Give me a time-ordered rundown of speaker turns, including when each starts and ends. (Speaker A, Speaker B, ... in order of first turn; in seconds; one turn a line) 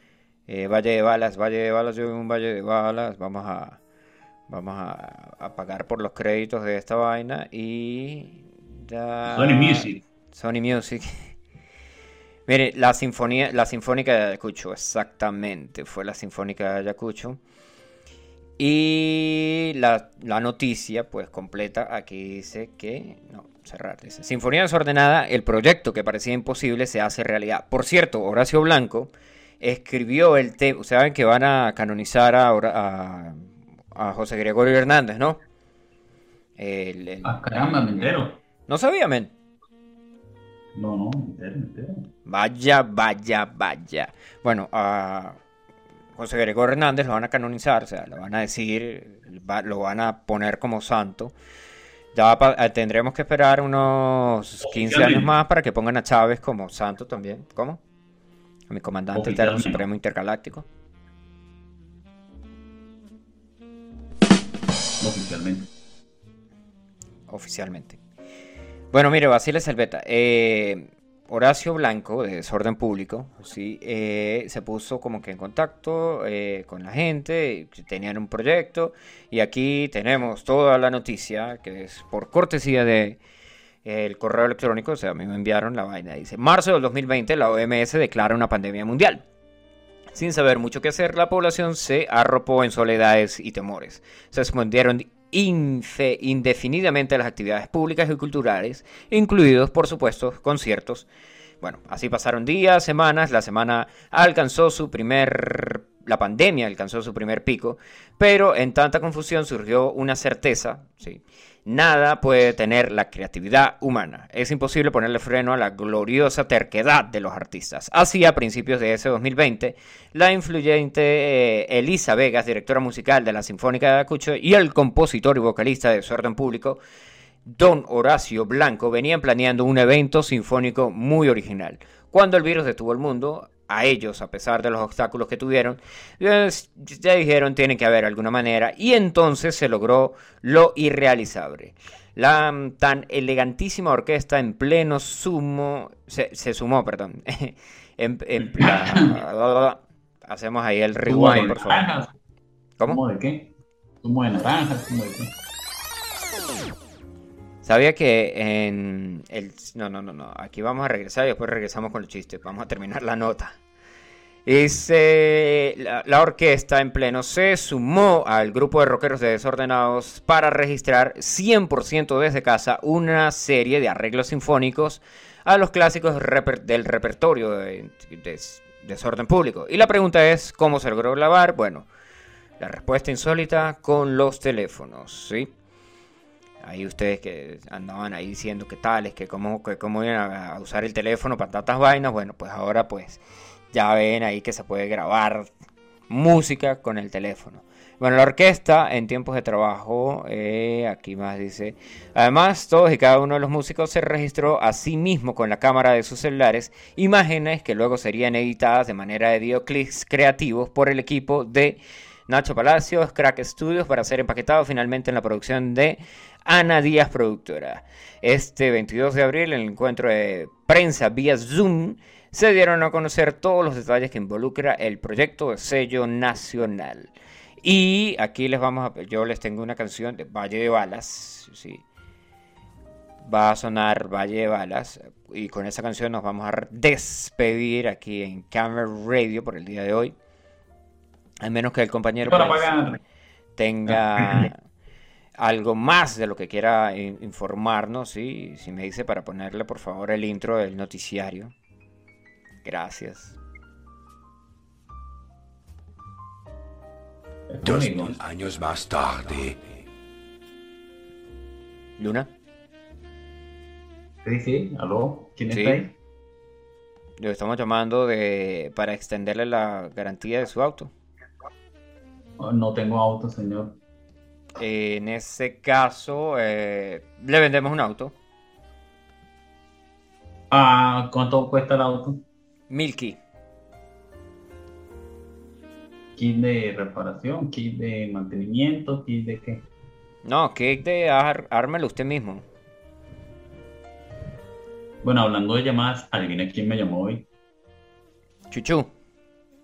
Speaker A: 0.5-3.8
Speaker A: 4.5-11.3
Speaker B: 9.2-10.0
Speaker A: 12.5-17.4
Speaker A: 18.6-35.4
Speaker A: 36.6-39.3
Speaker B: 37.2-38.4
Speaker B: 40.7-42.1
Speaker A: 42.2-45.4
Speaker A: 46.1-51.3
Speaker A: 52.1-57.8
Speaker B: 54.6-55.3
Speaker A: 58.7-60.6
Speaker B: 59.1-59.8
Speaker B: 65.0-65.7
Speaker A: 67.3-68.0
Speaker A: 68.9-83.2
Speaker A: 83.8-89.2
Speaker A: 90.1-101.0
Speaker A: 101.6-126.8
Speaker A: 127.4-151.9
Speaker B: 148.4-149.0
Speaker B: 151.0-152.1
Speaker B: 152.8-155.3
Speaker A: 157.6-163.6
Speaker A: 164.4-181.9
Speaker A: 182.6-185.5
Speaker A: 186.6-193.2
Speaker A: 193.7-195.5
Speaker A: 196.1-227.1
Speaker A: 227.6-231.8
Speaker A: 233.2-240.1
Speaker A: 241.4-242.9
Speaker B: 242.2-243.0
Speaker A: 243.6-244.6
Speaker B: 243.9-244.5
Speaker A: 245.4-251.5
Speaker A: 252.6-253.3
Speaker B: 257.5-258.2
Speaker C: 257.6-259.8
Speaker A: 262.0-262.3
Speaker B: 264.2-265.9
Speaker A: 265.5-265.8
Speaker A: 267.2-270.9
Speaker B: 272.4-273.8
Speaker A: 274.6-278.1
Speaker B: 280.5-282.2
Speaker A: 282.7-283.2
Speaker B: 286.1-289.6
Speaker A: 290.2-292.4
Speaker B: 295.0-297.3
Speaker A: 298.5-298.9